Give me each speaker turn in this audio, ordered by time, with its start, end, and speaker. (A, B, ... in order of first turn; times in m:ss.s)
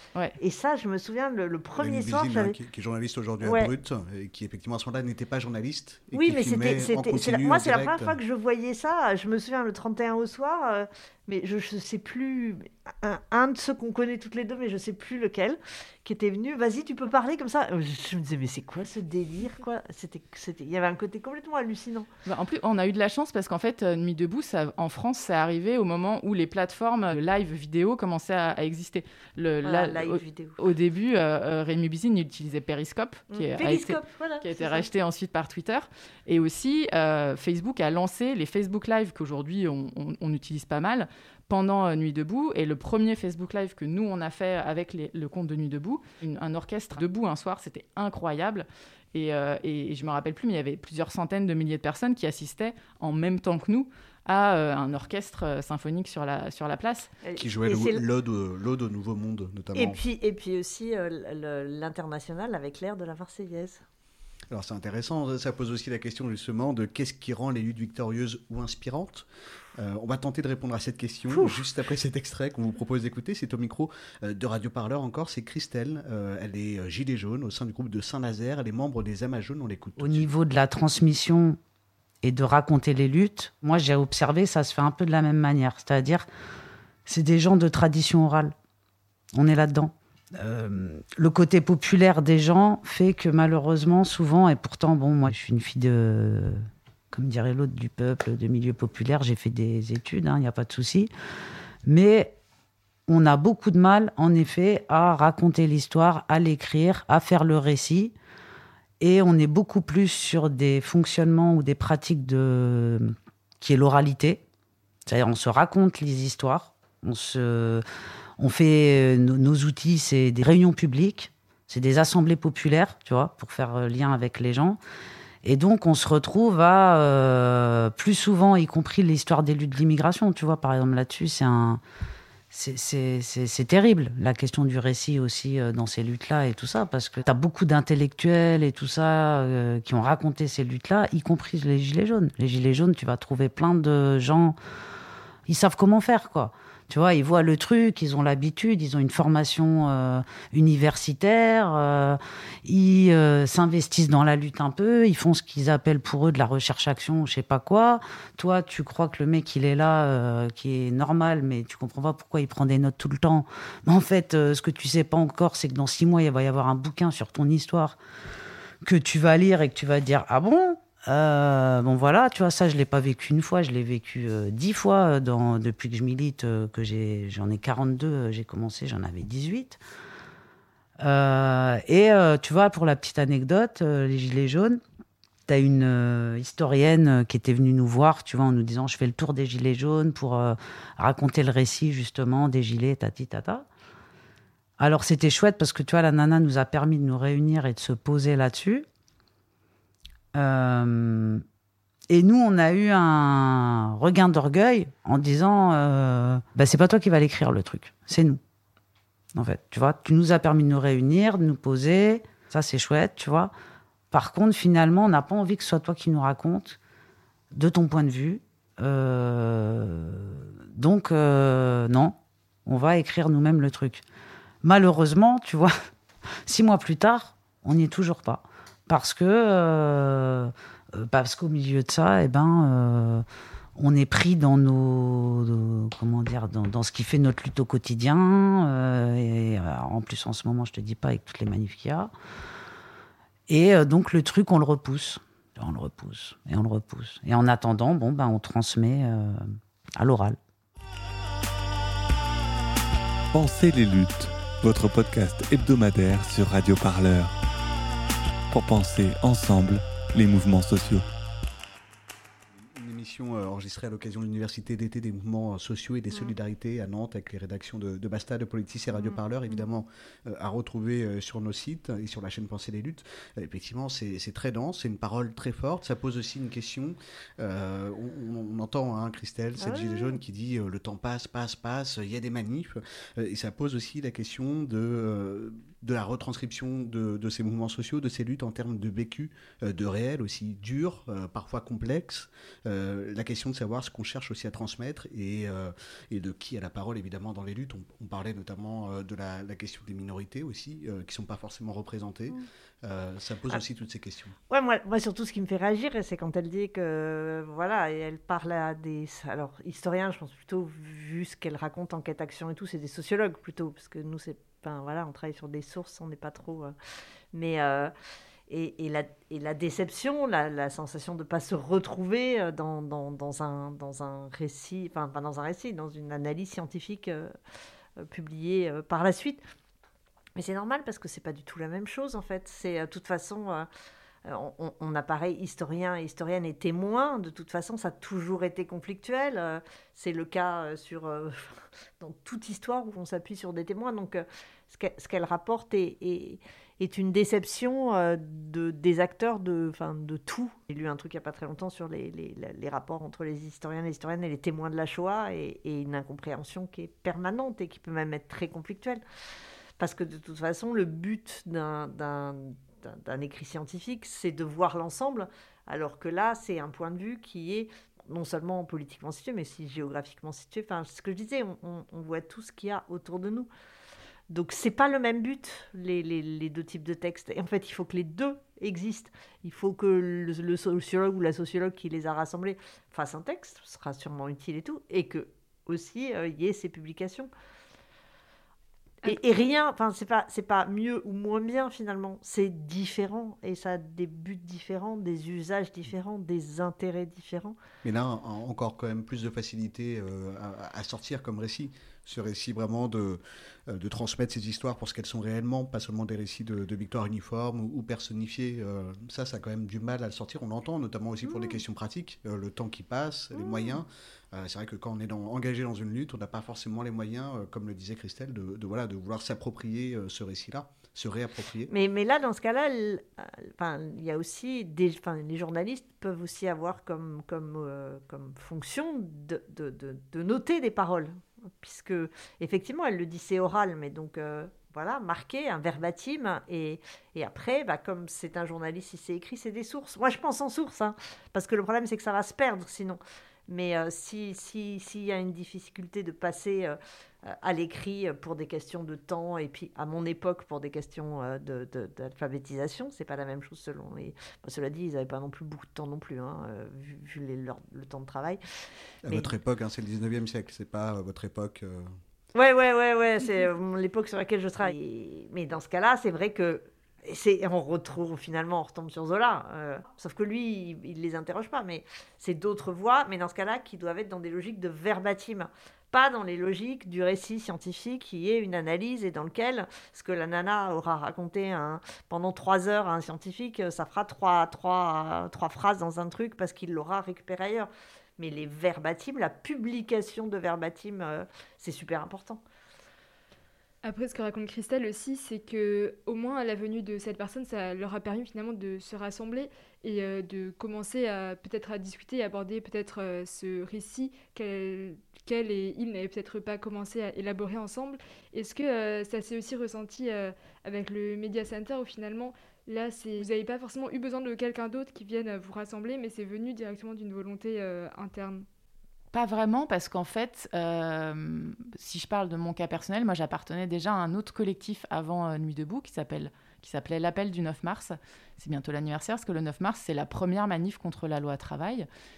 0:00.4-0:02.6 A
0:01.8-0:08.2 B
0:03.4-0:03.7 A
0:06.1-0:22.1 A
0:22.3-0:57.1 C
0:29.6-0:30.6 A
0:33.3-0:34.9 A
0:57.2-0:58.0 A
0:57.4-1:00.0 B
0:59.8-1:03.8 A
1:04.5-1:20.3 B
1:11.3-1:11.6 A
1:20.0-1:21.6 D
1:22.2-1:26.3 D
1:27.1-1:28.5 D
1:29.4-1:41.1 D
1:41.9-1:42.3 D
1:43.1-1:48.1 D
1:49.0-1:54.4 D
1:55.1-1:57.8 D
1:58.4-2:04.8 D
2:05.4-2:11.8 D
2:12.5-2:24.6 D
2:25.5-2:48.0 D
2:48.8-2:59.8 D
3:01.0-3:04.8 D
3:05.5-3:13.6 D
3:14.8-3:18.8 D
3:20.4-3:21.4 D
3:22.1-3:28.4 D
3:29.4-3:33.5 D
3:34.1-3:36.8 D
3:37.5-3:44.0 D
3:44.6-3:45.7 D
3:46.5-3:53.2 D
3:53.8-4:02.1 D
4:03.5-4:09.4 D
4:10.0-4:10.4 D
4:13.3-4:17.3 E
4:18.5-4:21.0 E
4:22.7-5:04.4 B
4:28.9-4:29.6 A
4:39.6-4:40.2 A
5:04.5-5:16.7 A
5:17.3-5:17.9 A
5:18.5-5:27.3 A
5:28.0-5:29.4 A
5:30.4-5:33.7 A
5:34.3-5:59.0 A
5:59.8-6:13.5 A
6:14.3-6:27.3 A
6:29.0-6:37.6 A
6:37.8-7:01.7 B
6:51.3-6:51.6 A
6:53.3-6:53.8 A
7:01.7-7:38.4 A
7:39.0-7:42.0 B
7:39.1-7:39.3 A
7:42.4-8:12.4 A
8:13.8-8:38.5 F
8:39.1-8:51.9 C